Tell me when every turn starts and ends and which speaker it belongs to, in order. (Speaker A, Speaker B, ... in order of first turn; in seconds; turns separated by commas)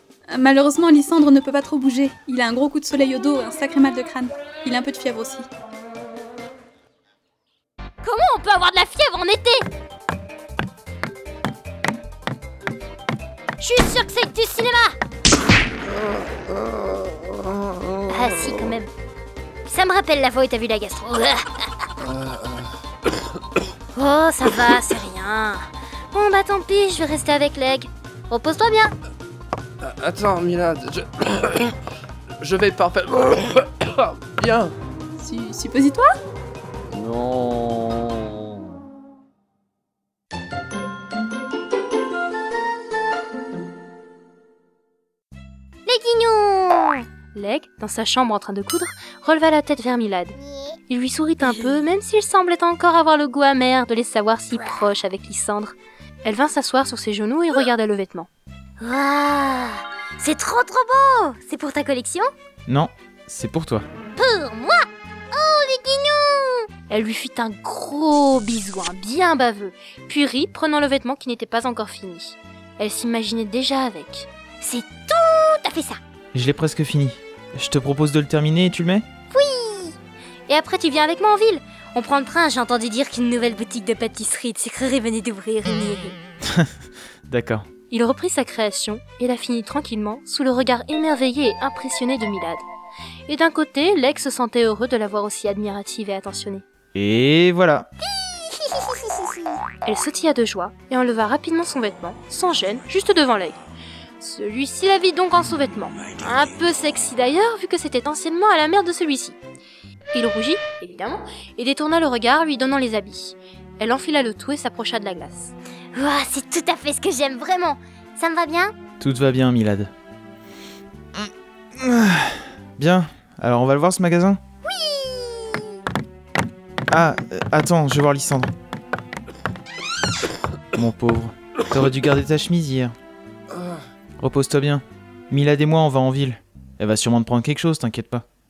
Speaker A: 0.3-5.5, Speaker B: 8.0-9.7, Speaker B: 13.6-15.0, Speaker B: 18.1-18.9, Speaker B: 19.7-21.7, Speaker C: 22.1-22.7, Speaker B: 23.9-28.9, Speaker C: 29.8-31.7, Speaker C: 32.4-34.7, Speaker A: 35.2-36.1, Speaker C: 37.0-37.9, Speaker B: 45.9-55.7, Speaker B: 56.2-58.3, Speaker B: 58.8-62.3, Speaker D: 62.7-63.9, Speaker B: 64.2-76.0, Speaker D: 76.3-79.0, Speaker B: 79.3-80.0, Speaker B: 80.5-86.2, Speaker D: 87.3-87.7, Speaker B: 87.9-92.6, Speaker B: 93.3-96.6, Speaker D: 97.0-97.9, Speaker B: 99.8-103.6, Speaker B: 104.2-109.4, Speaker B: 110.1-118.7, Speaker D: 119.0-119.9, Speaker D: 121.1-124.4, Speaker B: 124.7-125.7, Speaker D: 126.9-128.5, Speaker D: 130.7-132.9, Speaker D: 134.2-138.2